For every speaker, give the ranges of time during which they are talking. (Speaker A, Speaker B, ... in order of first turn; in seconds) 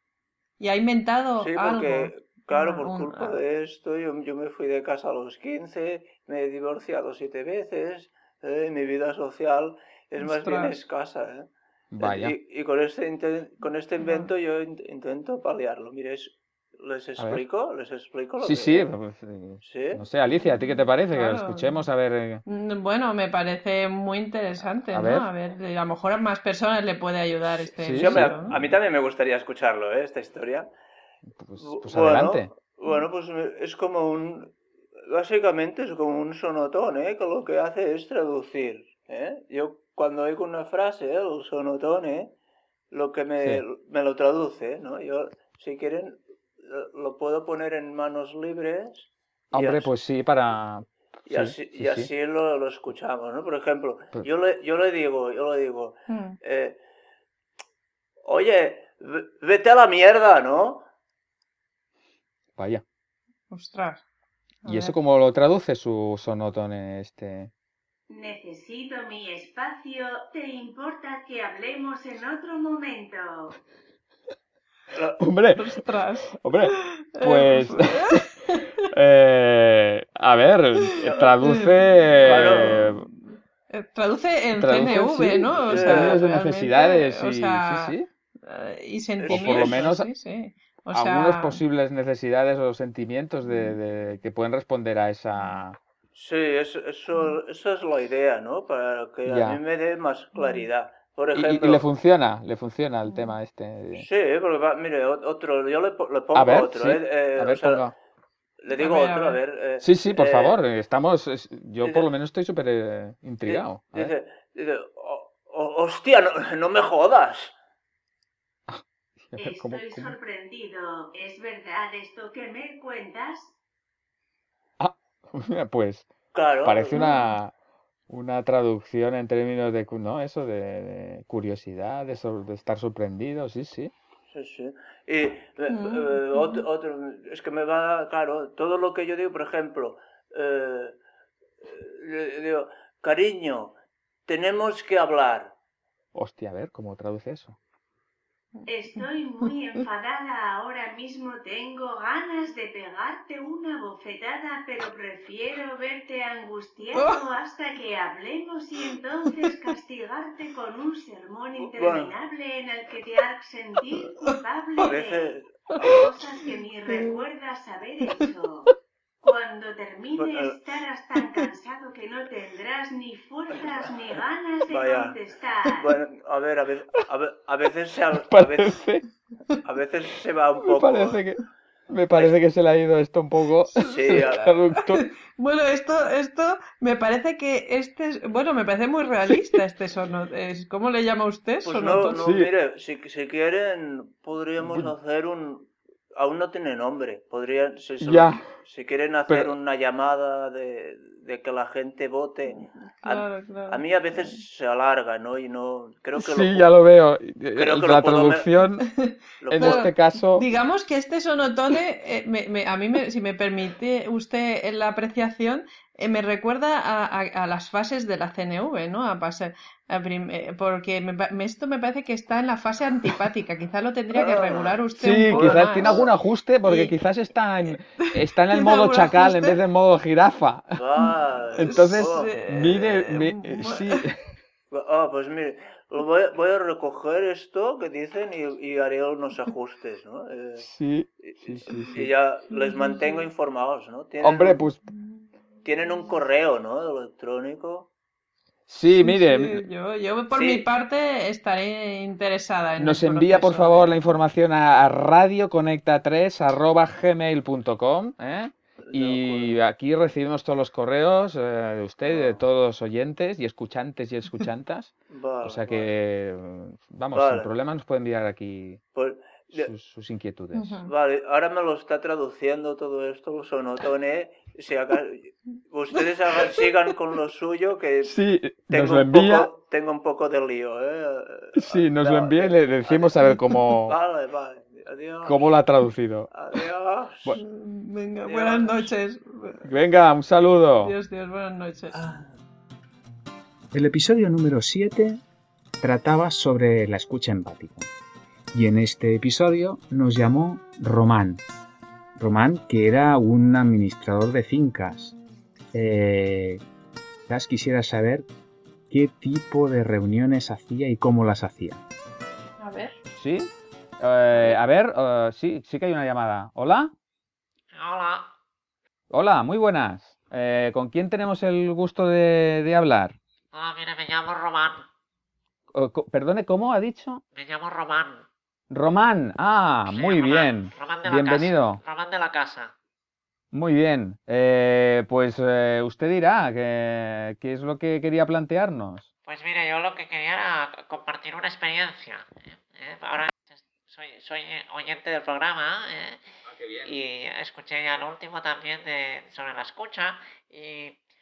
Speaker A: 0.6-3.4, 10.2-10.8, 14.0-14.3, 20.3-21.9, 22.4-28.5, 56.1-56.4, 63.5-64.0, 64.6-65.0, 75.5-78.8, 81.0-91.6, 93.4-93.8, 100.3-100.6, 103.1-103.3, 108.7-109.4, 126.9-127.3, 135.7-136.7, 148.7-149.0, 159.2-159.7, 165.8-167.2, 183.7-192.2, 202.4-204.4, 208.8-226.9, 227.7-229.6, 231.6-234.0, 242.5-243.3, 244.8-246.1, 248.9-254.0, 270.5-270.9, 287.3-289.7, 290.8-292.0, 312.6-312.9
Speaker B: 1.4-18.9, 19.6-20.0, 27.8-30.7, 31.6-34.5, 35.1-42.3, 42.9-49.9, 51.3-56.8, 58.2-60.8, 74.9-75.2, 82.2-82.9, 85.7-86.2, 89.2-89.9, 96.1-101.8, 104.0-107.8, 108.6-110.6, 113.5-117.5, 126.3-127.0, 134.3-140.9, 141.6-143.7, 144.3-145.5, 161.6-162.1, 164.8-165.9, 170.1-170.6, 173.6-174.2, 174.7-175.2, 175.8-178.8, 179.6-181.2, 183.9-184.4, 191.6-206.7, 207.6-208.5, 209.4-209.9, 224.1-226.1, 230.8-233.1, 234.7-240.7, 241.2-244.6, 245.6-247.9, 250.3-250.6, 258.8-259.5, 262.0-262.4, 265.1-265.9, 267.1-267.5, 268.9-269.7, 270.9-278.1, 278.7-283.1, 283.9-285.5, 286.3-287.3, 288.2-288.9, 291.9-292.2
Speaker C: 11.9-12.3, 17.2-17.4, 18.4-22.4, 24.9-25.3, 27.8-28.8, 31.4-32.5, 49.5-52.1, 62.5-62.8, 64.7-67.5, 75.2-78.2, 78.9-83.0, 84.5-88.1, 89.3-90.1, 90.9-95.8, 99.2-99.6, 101.3-104.1, 106.3-107.9, 109.8-114.1, 118.7-120.1, 124.8-127.5, 128.1-133.9, 146.1-147.6, 178.1-179.1, 180.6-185.0, 192.1-192.5, 194.6-194.9, 198.0-198.5, 199.3-199.5, 206.1-208.9, 209.5-210.4, 224.9-230.8, 231.5-234.2, 240.6-242.1, 244.2-244.8, 248.7-249.6, 252.8-268.8, 269.5-270.8, 278.0-279.5, 281.5-284.0, 285.2-286.6, 289.6-290.9, 313.1-316.9, 319.1-323.2, 325.7-327.2, 328.7-331.8, 333.5-339.1
Speaker D: 68.1-73.6, 119.3-123.5, 148.7-168.7, 169.2-175.9
Speaker E: 293.7-295.2, 295.8-297.9, 298.5-301.4, 302.1-305.1, 305.7-306.6, 307.3-308.3, 308.9-311.8
Speaker F: 317.7-318.3, 323.5-324.9, 327.3-328.2, 329.8-332.7, 339.2-346.2, 346.8-351.0